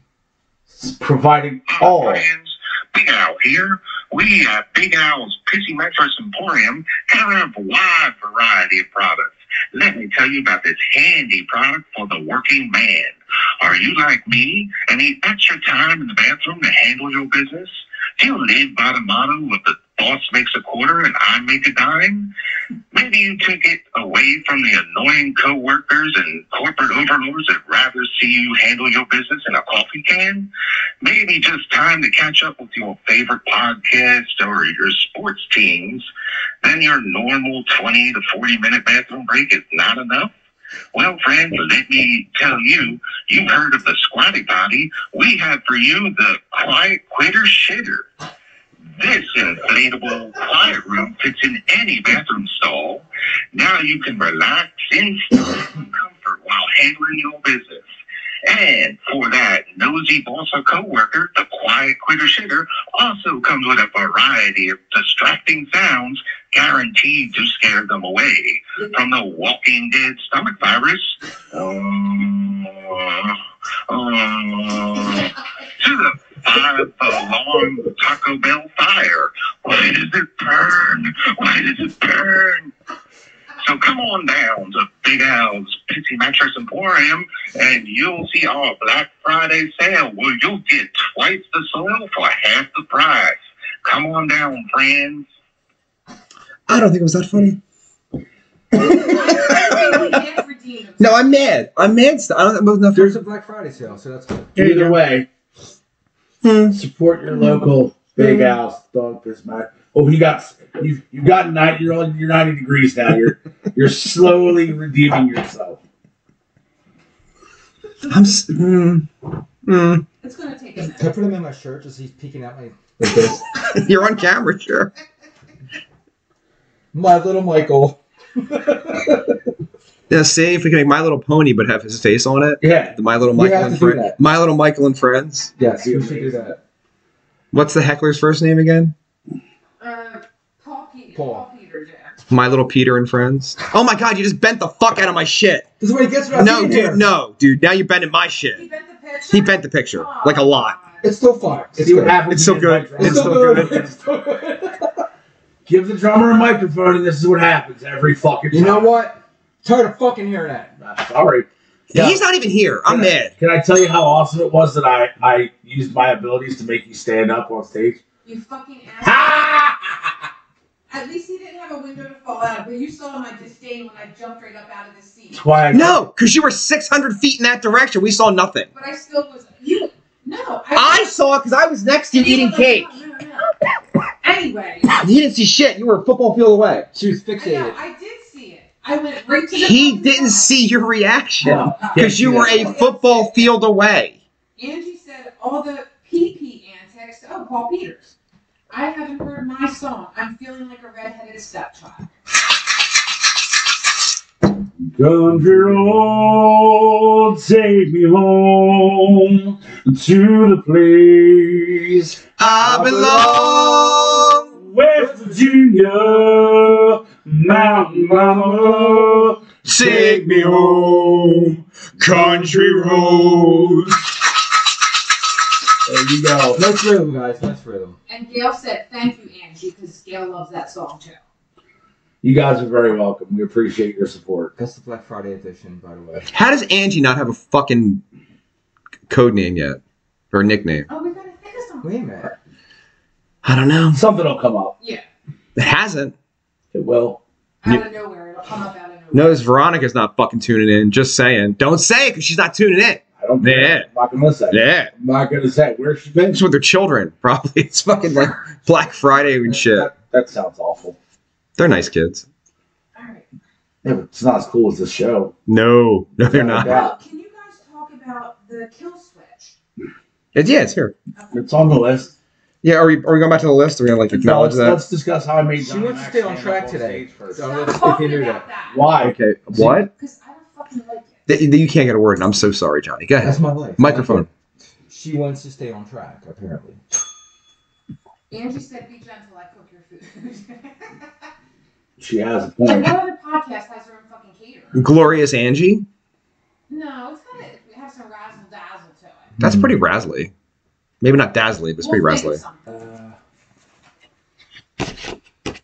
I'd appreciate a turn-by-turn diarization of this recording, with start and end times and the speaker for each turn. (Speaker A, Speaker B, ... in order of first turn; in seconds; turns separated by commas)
Speaker A: 0.7-2.3, Speaker B: 1.7-22.3, Speaker B: 22.9-30.5, Speaker B: 31.0-36.0, Speaker B: 36.6-40.3, Speaker B: 40.9-48.1, Speaker B: 49.0-57.9, Speaker B: 58.5-82.7, Speaker B: 83.6-95.2, Speaker C: 96.7-97.6, Speaker C: 98.7-100.2, Speaker D: 99.0-101.4, Speaker C: 101.0-103.2, Speaker E: 102.9-104.6, Speaker A: 104.6-105.3, Speaker C: 104.6-105.0, Speaker C: 106.4-106.8, Speaker A: 106.7-115.8, Speaker C: 118.1-119.1, Speaker C: 119.6-120.1, Speaker D: 120.2-121.2, Speaker E: 121.0-123.5, Speaker C: 123.7-124.9, Speaker E: 126.9-129.4, Speaker C: 130.1-135.5, Speaker A: 132.6-133.0, Speaker E: 133.3-134.2, Speaker E: 135.6-136.6, Speaker A: 135.6-136.6, Speaker C: 137.5-138.9, Speaker D: 139.8-142.2, Speaker E: 141.2-141.4, Speaker C: 142.3-145.7, Speaker E: 145.8-147.0, Speaker C: 146.3-148.6, Speaker D: 148.5-151.1, Speaker C: 149.3-150.8, Speaker E: 151.0-152.2, Speaker A: 151.8-153.9, Speaker C: 152.3-153.8, Speaker E: 153.0-155.1, Speaker A: 155.7-158.9, Speaker E: 158.5-160.7, Speaker A: 160.8-162.2, Speaker C: 161.9-163.3, Speaker A: 162.9-168.0, Speaker D: 168.2-169.6, Speaker A: 169.0-170.1, Speaker D: 170.9-175.5, Speaker A: 175.3-176.0, Speaker C: 175.7-178.7, Speaker D: 178.7-181.1, Speaker C: 180.8-183.0, Speaker D: 182.1-183.5, Speaker D: 184.2-184.9, Speaker C: 184.9-186.9, Speaker E: 186.9-187.8, Speaker D: 187.4-190.5, Speaker C: 189.5-194.2, Speaker A: 191.4-192.8, Speaker D: 191.4-193.6, Speaker D: 194.6-198.2, Speaker D: 198.7-202.1, Speaker A: 204.8-213.4, Speaker C: 212.4-214.5, Speaker E: 212.7-213.7, Speaker A: 214.5-221.0, Speaker E: 215.0-215.4, Speaker E: 217.6-219.3, Speaker C: 219.7-224.0, Speaker A: 222.0-223.5, Speaker A: 225.8-226.6, Speaker E: 226.5-228.0, Speaker D: 228.1-231.2, Speaker A: 232.2-234.5, Speaker E: 234.6-236.3, Speaker C: 236.3-238.0, Speaker C: 239.1-239.8, Speaker C: 240.3-240.9, Speaker D: 240.9-242.3, Speaker E: 241.8-242.3, Speaker C: 243.4-244.0, Speaker A: 243.9-244.8, Speaker D: 244.8-245.1, Speaker C: 245.6-246.2, Speaker A: 246.7-247.2, Speaker D: 247.6-249.4, Speaker C: 249.1-253.9, Speaker A: 253.2-256.4, Speaker C: 254.5-254.9, Speaker C: 256.3-259.9, Speaker D: 257.9-258.6, Speaker A: 259.5-261.0, Speaker C: 261.6-262.2, Speaker D: 263.0-263.2, Speaker A: 263.8-265.3, Speaker C: 265.5-266.8, Speaker A: 266.3-266.9, Speaker D: 266.6-269.6, Speaker C: 270.3-270.9, Speaker D: 271.1-271.5, Speaker A: 271.3-272.1, Speaker C: 272.6-274.8, Speaker A: 274.1-277.5, Speaker E: 275.6-278.4, Speaker D: 277.4-278.8, Speaker A: 278.7-279.8, Speaker C: 279.0-279.9, Speaker D: 279.9-281.2, Speaker C: 281.3-284.3, Speaker E: 283.2-284.3, Speaker E: 284.9-286.8, Speaker D: 288.3-291.3, Speaker A: 292.0-292.9, Speaker D: 292.6-294.9, Speaker C: 294.7-295.9, Speaker D: 296.7-299.3, Speaker E: 299.4-299.8, Speaker C: 299.4-300.3, Speaker C: 301.0-302.4, Speaker D: 301.8-302.7, Speaker E: 302.7-303.1